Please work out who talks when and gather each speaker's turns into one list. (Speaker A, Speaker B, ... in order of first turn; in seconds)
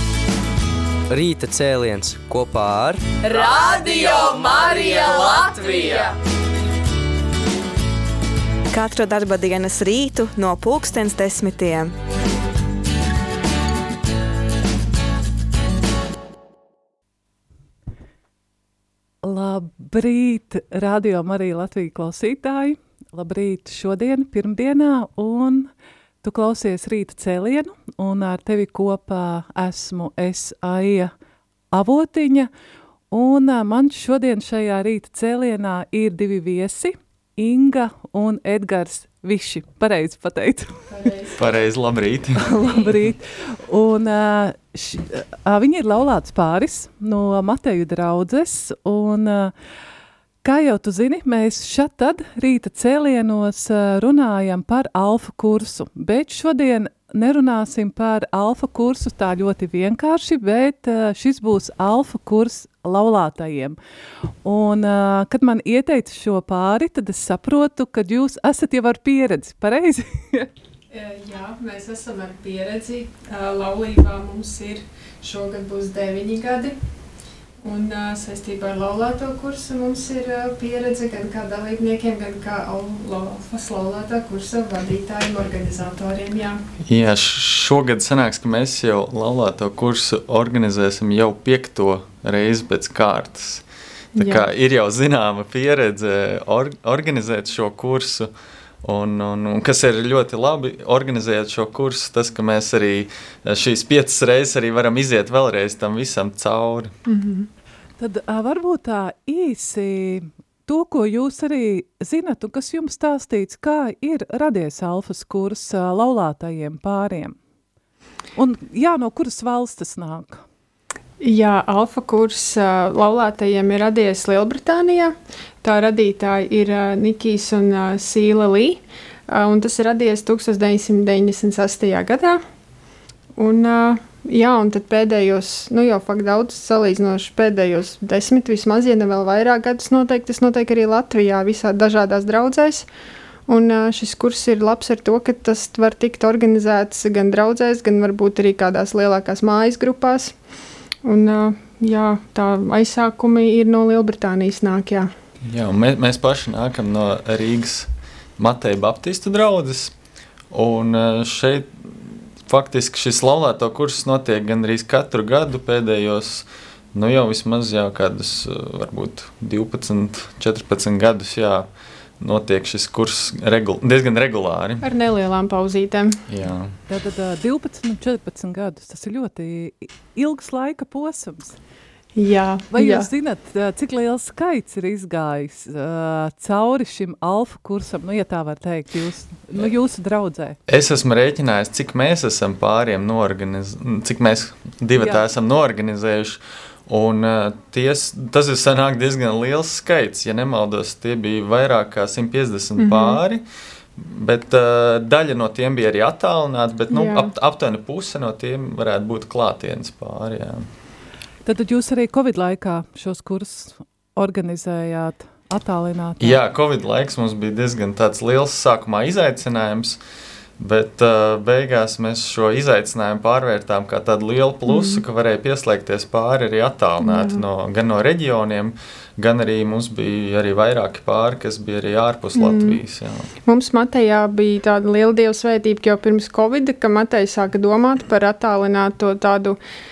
Speaker A: 1.1-3.0
Speaker B: 3.2-6.2
Speaker C: 8.7-11.9
Speaker D: 19.2-25.7, 26.2-31.1, 31.7-32.5, 33.1-40.8, 42.4-49.5, 50.4-63.8, 64.4-70.5, 108.0-117.4, 118.4-120.4, 176.9-181.6, 182.7-190.6, 211.4-216.4
Speaker E: 40.9-41.4, 70.9-76.8, 77.6-86.6, 94.2-94.5, 107.1-107.5, 121.2-132.4, 133.4-142.9, 143.5-150.3, 151.0-155.1, 174.8-176.2, 182.2-183.1, 202.8-203.2, 206.9-207.3, 224.7-225.0, 227.0-227.4, 232.3-232.8, 233.5-239.6
Speaker F: 41.4-42.5, 86.9-93.7, 94.2-98.3, 98.8-106.9, 155.4-159.9, 160.5-171.7, 172.2-174.8, 176.3-176.8, 190.7-203.4, 204.0-210.7, 216.2-220.0, 220.6-233.3